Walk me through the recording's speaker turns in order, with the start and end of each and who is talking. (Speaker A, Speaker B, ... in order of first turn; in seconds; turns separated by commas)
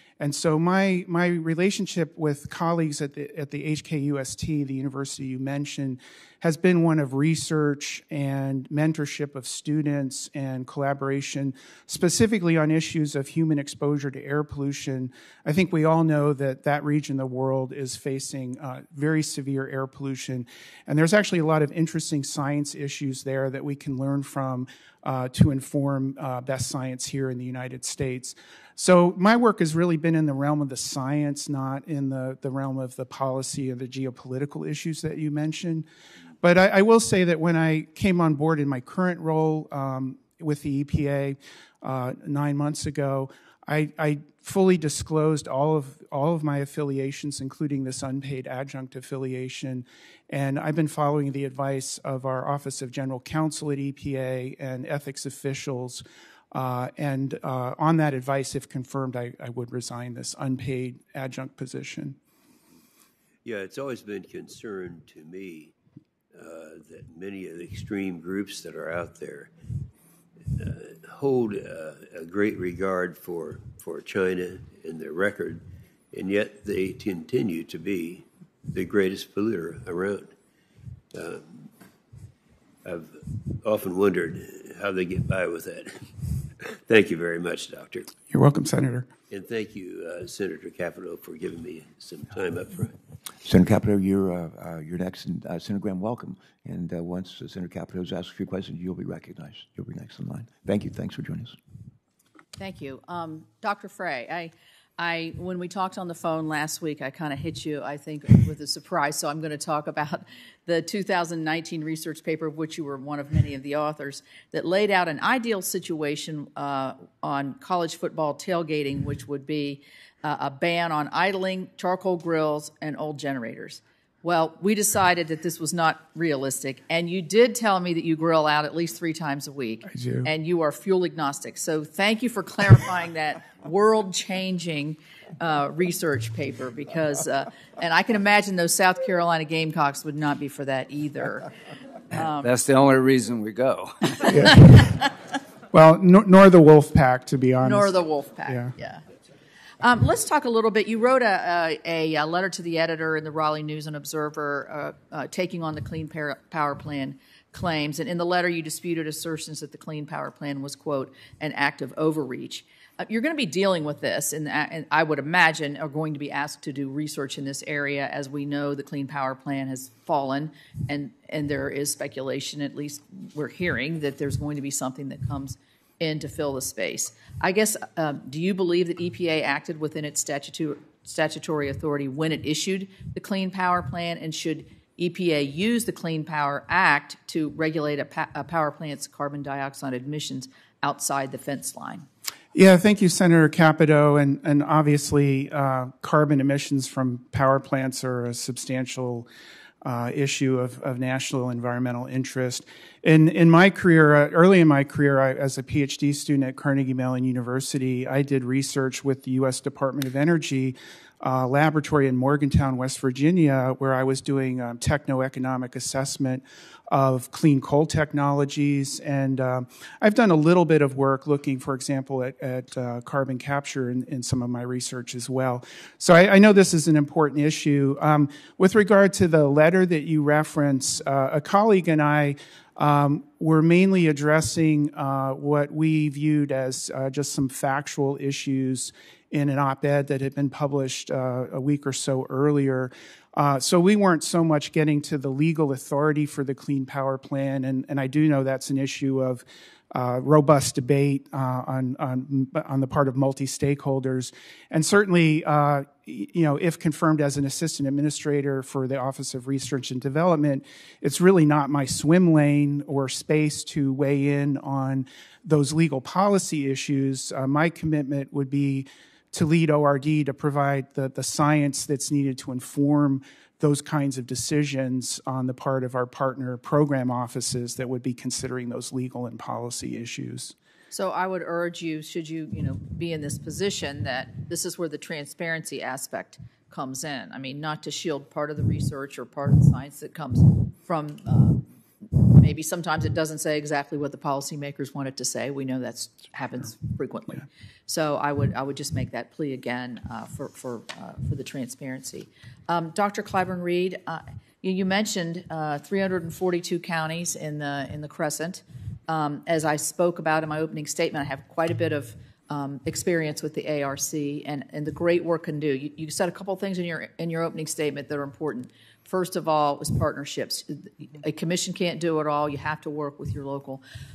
Speaker A: 0.2-35.9, Speaker A: 36.4-62.2, Speaker B: 63.4-65.7, Speaker B: 66.3-69.5, Speaker B: 70.5-80.3, Speaker B: 81.1-81.7, Speaker B: 82.8-88.1, Speaker A: 88.3-89.1, Speaker B: 89.3-93.0, Speaker C: 93.5-101.6, Speaker D: 102.6-141.5, Speaker A: 129.9-130.3, Speaker D: 142.1-142.5, Speaker E: 142.4-144.3, Speaker A: 144.3-145.1, Speaker A: 145.7-147.9, Speaker D: 147.6-149.0, Speaker A: 148.5-148.7, Speaker D: 149.8-192.1, Speaker A: 192.5-199.3, Speaker A: 199.8-280.6, Speaker D: 280.9-323.8